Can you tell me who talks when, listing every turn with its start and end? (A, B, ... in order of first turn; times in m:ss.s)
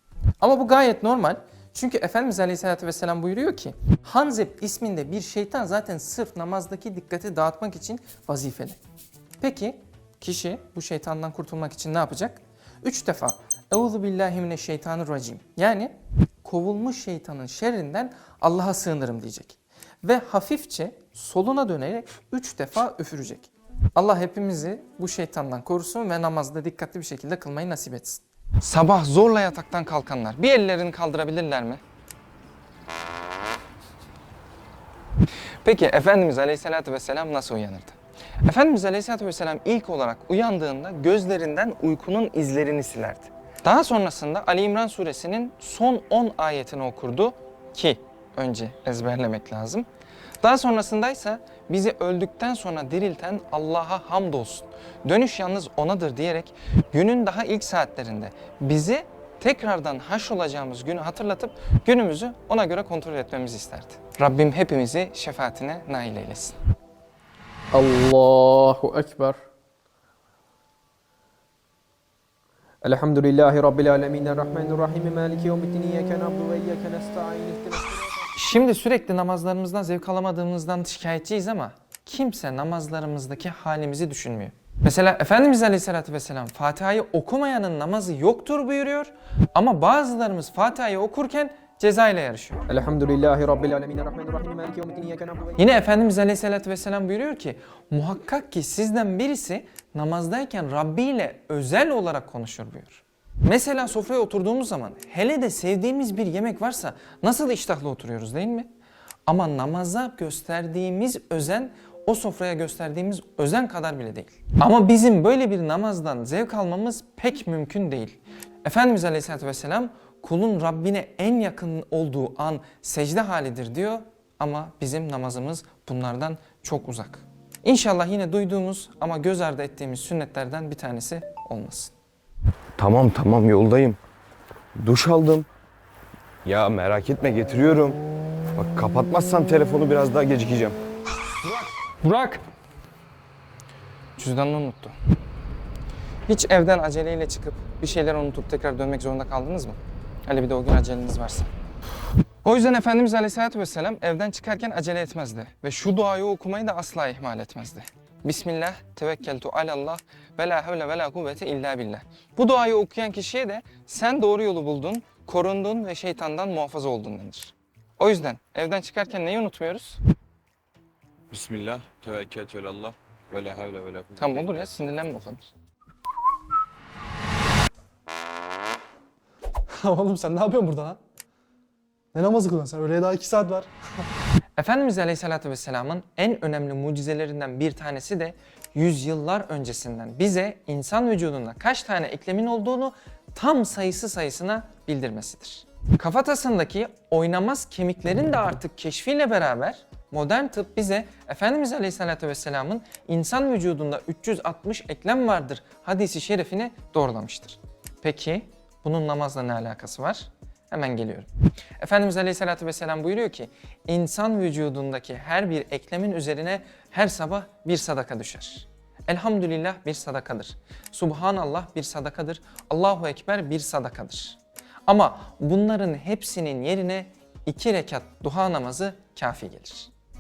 0:00.4-0:08.8 A
0:09.4-0:31.8 A
0:35.6-0:49.8 A
0:50.4-1:06.6 A
1:07.7-1:09.4 B
1:12.8-1:18.2 B
1:18.4-1:32.6 A
1:32.7-1:35.6 B
1:35.6-1:48.7 A
1:49.2-2:11.9 A
2:12.8-2:14.0 C
2:14.8-2:15.5 C
2:16.4-2:18.0 C
2:18.5-2:20.8 C
2:21.4-2:22.4 A
2:24.2-2:25.0 A
2:26.3-2:31.5 A
2:32.4-2:50.0 A
2:51.4-2:54.3 D
2:54.2-2:55.4 A
2:59.8-3:01.0 E
3:02.1-3:03.7 E
3:04.6-3:49.9 A